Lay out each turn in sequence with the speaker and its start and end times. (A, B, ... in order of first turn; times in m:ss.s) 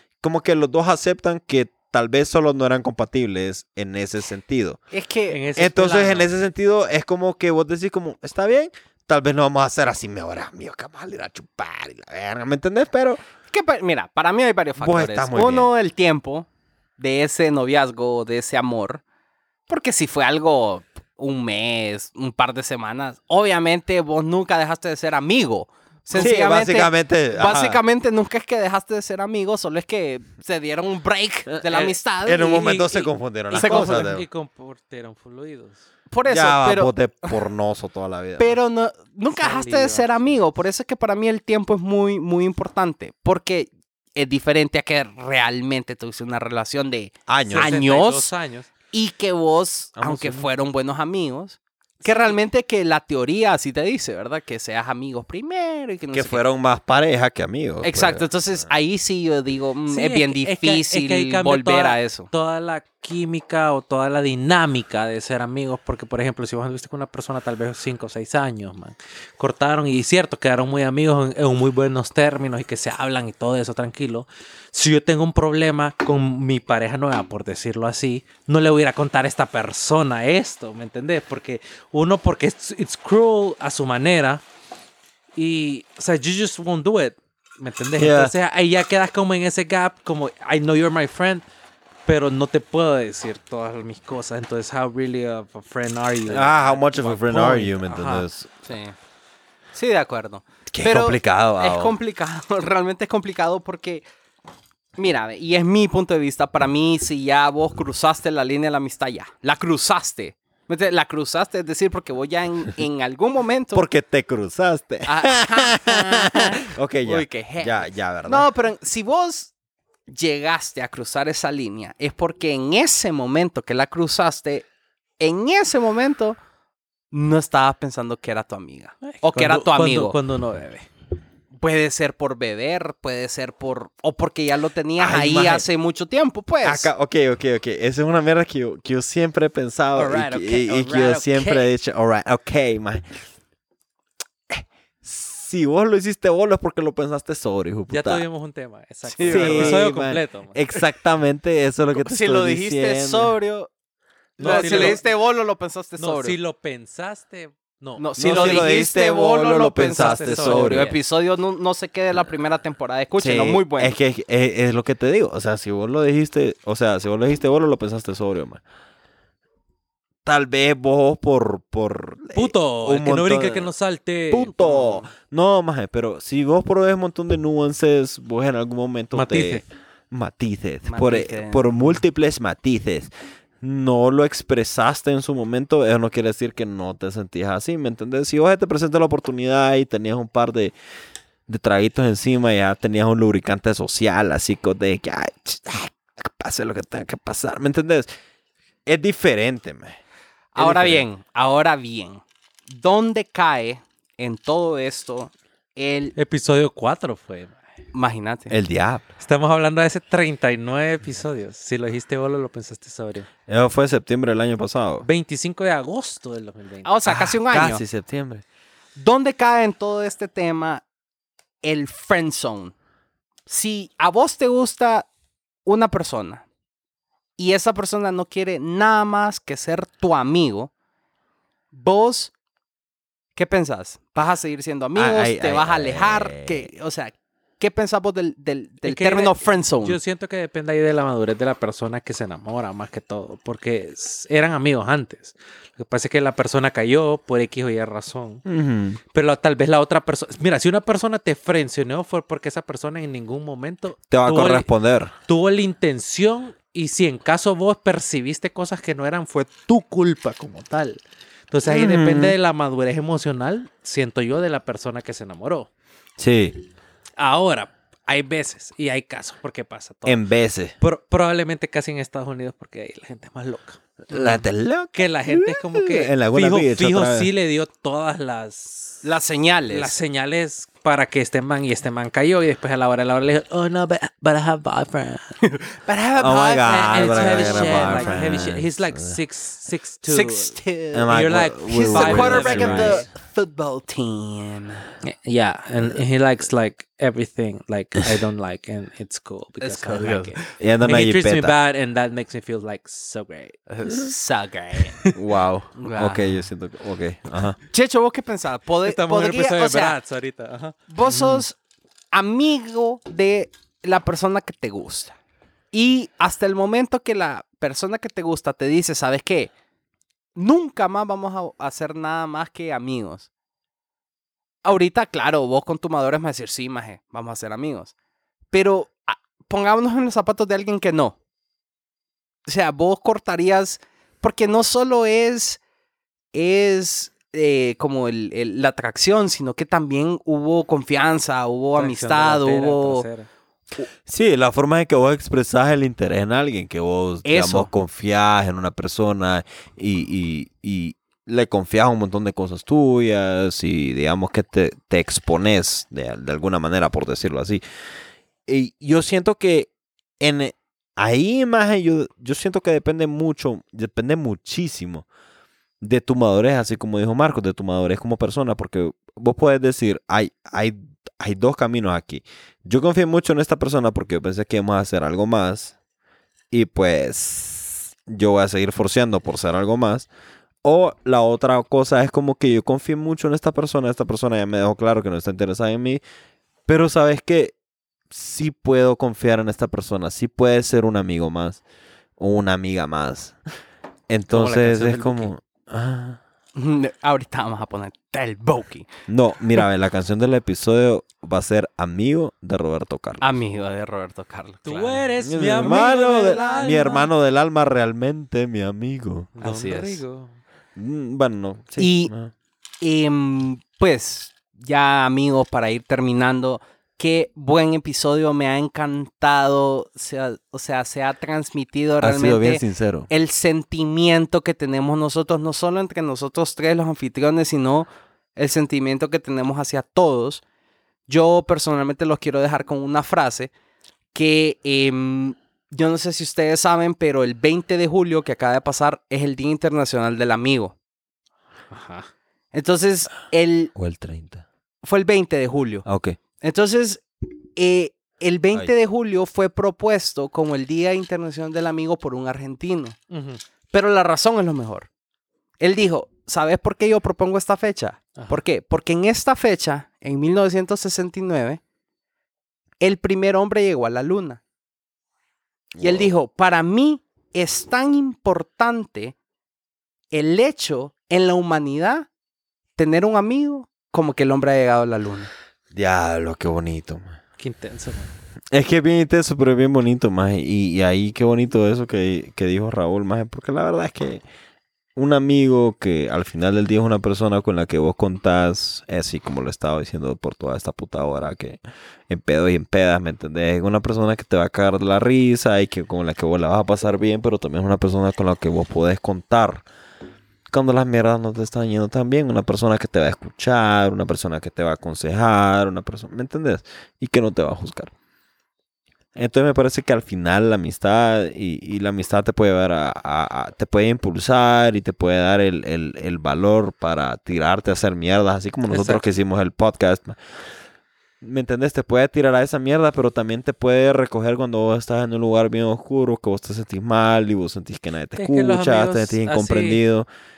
0:00.2-0:04.8 A
0:04.9-0:05.4 B
0:05.3-0:06.3 C
0:05.6-0:13.2 A
0:13.5-0:19.0 B
0:14.8-0:15.7 A
0:19.7-0:34.1 B
0:26.1-0:27.8 A
0:31.5-0:34.2 A
0:33.5-0:35.8 C
0:36.1-0:37.3 B
0:36.3-0:38.6 A
0:38.4-0:48.3 B
0:39.4-0:40.4 C
0:47.3-0:47.7 A
0:47.5-0:48.7 C
0:48.9-0:56.4 B
0:50.0-0:50.4 A
0:52.1-0:52.3 C
0:56.1-0:58.3 A
0:57.8-1:02.3 B
0:59.9-1:24.4 C
1:25.4-1:31.4 C
1:28.0-1:28.3 A
1:32.0-1:38.3 C
1:36.3-1:38.5 A
1:38.6-1:39.0 B
1:39.7-1:44.0 B
1:40.7-1:42.0 A
1:45.0-1:53.8 B
1:53.7-1:58.5 A
1:55.0-1:59.5 B
2:00.1-2:04.6 B
2:05.2-2:06.4 B
2:07.1-2:10.2 B
2:09.0-2:10.9 C
2:11.5-2:16.9 B
2:15.0-2:15.6 A
2:16.6-2:23.2 A
2:19.9-2:21.7 B
2:24.5-2:28.2 A
2:27.9-2:30.6 C
2:29.0-2:29.8 B
2:29.3-2:33.3 A
2:31.9-2:33.7 B
2:34.4-2:35.0 A
2:34.4-2:35.0 C
2:34.4-2:36.4 B
2:36.0-2:38.6 C
2:38.0-2:44.0 B
2:38.2-2:40.9 A
2:39.8-2:40.9 C
2:43.2-2:48.6 A
2:50.2-2:53.7 A
2:52.3-2:54.5 C
2:54.3-3:10.7 A
2:54.6-2:55.1 B
2:59.1-2:59.6 C
3:00.8-3:02.0 B
3:11.5-3:18.1 A
3:18.8-3:20.0 A
3:20.5-3:26.1 B
3:20.6-3:21.0 A
3:26.2-3:27.6 C
3:27.9-3:28.6 B
3:28.5-3:29.0 A
3:29.2-3:33.3 C
3:33.5-3:35.0 A
3:35.0-3:37.0 C
3:36.8-3:37.8 B
3:37.0-3:38.4 A
3:39.0-3:40.8 B
3:41.6-3:42.7 B
3:43.5-3:45.1 B
3:45.6-3:46.4 B
3:47.4-3:50.7 B
3:51.7-3:52.3 B
3:53.3-4:00.0 B
3:55.0-3:56.7 A
3:58.8-4:08.4 C
4:08.4-4:09.0 A
4:09.1-4:14.7 C
4:14.1-4:15.1 A
4:15.3-4:25.7 C
4:21.6-4:22.4 A
4:26.2-4:26.6 A
4:27.2-4:30.2 C
4:30.0-4:30.7 A
4:30.8-4:39.0 C
4:34.1-4:37.3 A
4:39.0-4:40.0 B
4:39.7-4:45.4 C
4:45.4-4:48.4 B
4:46.2-4:49.2 A
4:46.6-4:53.1 C
4:50.0-4:51.1 B
4:50.9-4:53.1 A
4:51.7-4:54.8 B
4:55.0-5:03.6 C
4:59.6-5:00.5 B
5:00.6-5:01.6 A
5:03.7-5:05.0 B
5:05.1-5:07.6 A
5:05.7-5:06.3 B
5:07.7-5:10.0 B
5:08.8-5:10.8 C
5:10.9-5:11.6 B
5:11.0-5:11.4 A
5:12.1-5:15.2 B
5:15.7-5:19.5 B
5:20.3-5:23.3 B
5:24.6-5:27.9 B
5:28.5-5:31.2 B
5:32.4-5:35.6 B
5:36.3-5:43.0 B
5:41.7-5:43.3 C
5:44.0-5:57.6 A
5:47.2-5:47.7 B
5:58.5-6:05.0 A
6:05.8-6:15.7 A
6:16.5-6:20.1 A
6:20.6-6:26.0 A
6:26.6-6:27.5 A
6:28.1-6:31.6 A
6:32.2-6:33.4 A
6:34.1-6:36.2 A
6:34.3-6:35.3 C
6:36.5-6:38.9 B
6:39.1-6:43.2 A
6:43.2-6:47.1 B
6:44.6-6:47.1 C
6:45.2-6:49.3 A
6:49.4-6:50.4 C
6:49.4-6:50.0 B
6:50.8-6:52.3 A
6:51.8-6:52.1 B
6:52.8-7:10.4 B
7:02.0-7:03.1 A
7:11.1-7:13.5 B
7:14.1-7:20.7 B
7:21.7-7:22.1 C
7:22.5-7:23.7 B
7:23.7-7:24.4 A
7:24.8-7:25.8 B
7:25.8-7:26.2 A
7:26.4-7:33.0 B
7:33.1-7:33.4 C
7:33.7-7:34.9 B
7:35.6-7:41.6 B
7:38.2-7:38.4 C
7:42.8-7:44.4 B
7:45.7-7:46.1 A
7:45.8-7:49.1 B
7:50.1-7:52.1 B
7:52.8-7:55.3 B
7:55.7-7:57.1 A
7:57.4-7:58.1 C
7:58.5-8:04.2 A
8:05.0-8:19.6 A
8:20.5-8:27.9 A
8:29.1-8:40.2 A
8:38.7-8:39.0 C
8:41.2-8:50.1 A
8:48.2-8:49.8 C